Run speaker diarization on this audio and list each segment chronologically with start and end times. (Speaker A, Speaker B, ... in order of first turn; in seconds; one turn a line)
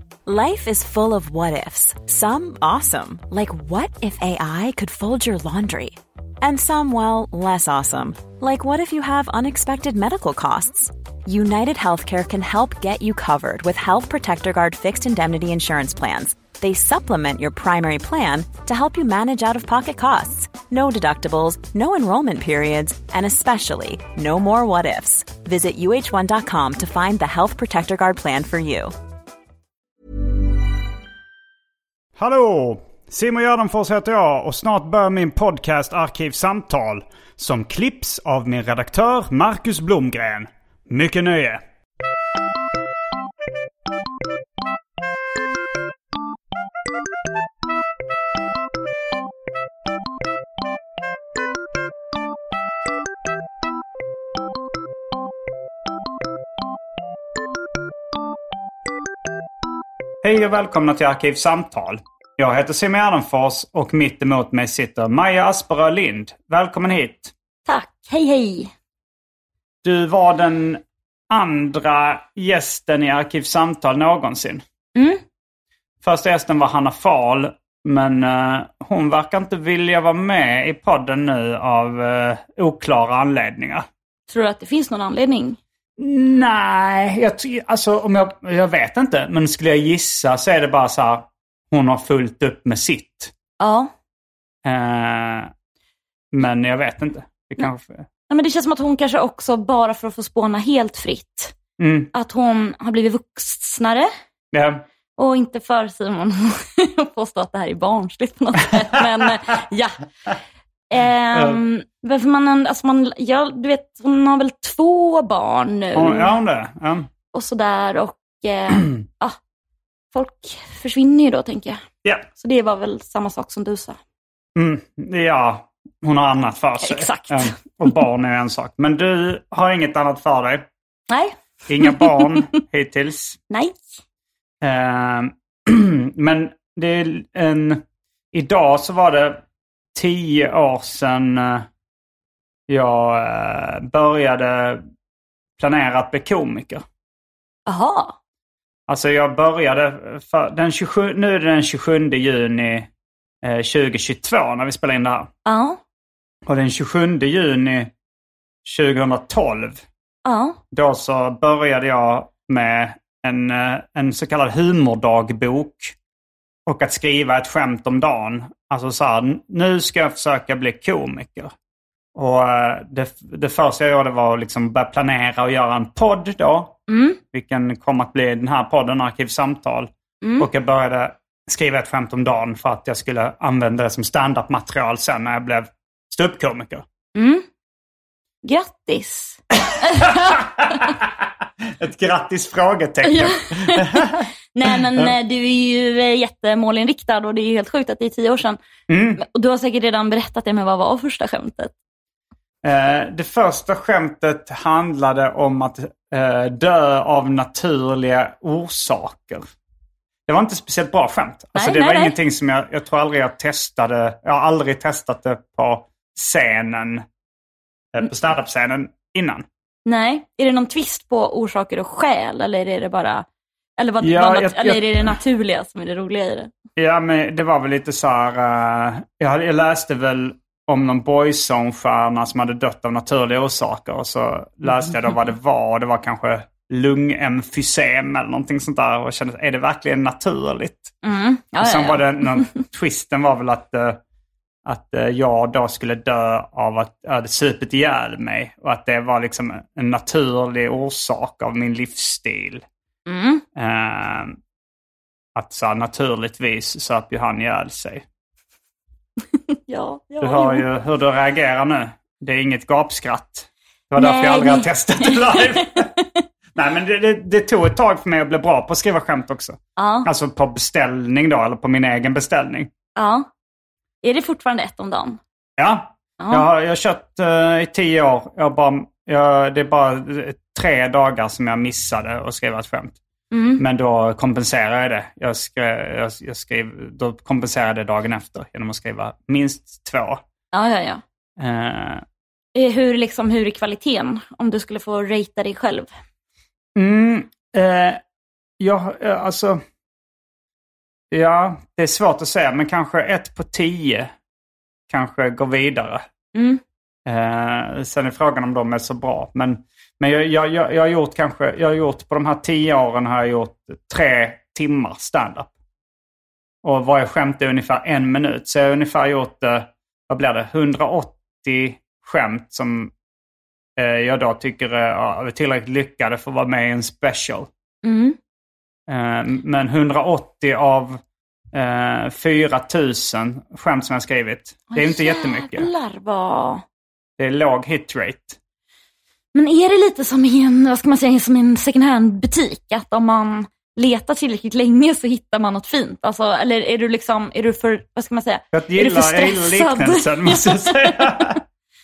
Speaker A: 0.2-28.9
Speaker B: 32.1-41.6
Speaker B: 60.2-67.3
Speaker C: 67.7-68.7
Speaker B: 69.8-74.6
Speaker C: 75.0-75.2
Speaker B: 76.0-83.9
Speaker C: 84.3-85.6
Speaker B: 86.0-93.3
Speaker C: 93.6-93.9
Speaker B: 94.6-95.5
Speaker B: 96.3-98.1
Speaker C: 98.3-101.5
Speaker B: 101.8-102.1
Speaker C: 102.1-104.1
Speaker B: 104.5-104.8
Speaker C: 105.2-110.0
Speaker C: 110.9-116.3
Speaker B: 111.3-111.6
Speaker B: 115.9-117.1
Speaker C: 117.3-119.4
Speaker C: 120.1-121.8
Speaker C: 122.4-124.0
Speaker B: 124.5-130.7
Speaker C: 126.8-127.5
Speaker C: 131.1-132.4
Speaker B: 131.7-133.4
Speaker C: 133.5-133.8
Speaker B: 134.6-139.4
Speaker B: 139.9-141.7
Speaker B: 142.7-144.8
Speaker B: 145.6-146.8
Speaker C: 147.7-148.2
Speaker B: 148.9-152.9
Speaker B: 153.4-155.3
Speaker C: 155.4-155.8
Speaker B: 156.4-157.9
Speaker B: 158.6-159.8
Speaker C: 160.2-160.6
Speaker B: 160.7-165.9
Speaker B: 166.7-171.5
Speaker B: 172.1-176.8
Speaker C: 176.9-177.2
Speaker B: 177.3-186.8
Speaker C: 180.2-180.5
Speaker C: 187.1-187.4
Speaker C: 188.4-190.4
Speaker B: 189.6-194.3
Speaker C: 193.1-198.6
Speaker B: 198.9-199.2
Speaker C: 199.2-201.7
Speaker B: 202.6-209.5
Speaker B: 210.3-217.1
Speaker C: 211.5-212.1
Speaker B: 217.9-219.4
Speaker C: 219.8-223.2
Speaker C: 223.8-226.5
Speaker B: 224.0-225.1
Speaker B: 226.8-240.9
Speaker C: 241.0-242.5
Speaker B: 241.6-244.0
Speaker B: 244.6-252.6
Speaker C: 253.1-253.4
Speaker B: 253.6-254.4
Speaker B: 255.3-258.0
Speaker C: 259.7-260.6
Speaker B: 260.2-265.9
Speaker C: 264.0-266.1
Speaker B: 266.5-272.7
Speaker C: 269.8-270.1
Speaker C: 272.9-273.3
Speaker C: 274.0-275.2
Speaker B: 275.6-283.0
Speaker C: 276.2-276.4
Speaker C: 283.3-283.6
Speaker B: 283.6-290.2
Speaker C: 290.5-291.0
Speaker B: 291.4-292.0
Speaker C: 292.5-295.9
Speaker B: 296.7-298.0
Speaker B: 298.6-299.6
Speaker B: 301.1-304.1
Speaker B: 304.9-306.0
Speaker C: 306.3-306.6
Speaker B: 307.1-315.5
Speaker B: 316.6-322.9
Speaker B: 323.8-327.5
Speaker C: 327.8-328.2
Speaker B: 328.9-331.0
Speaker B: 331.5-335.7
Speaker C: 334.7-336.6
Speaker B: 337.2-338.4
Speaker C: 339.3-351.3
Speaker B: 348.5-351.4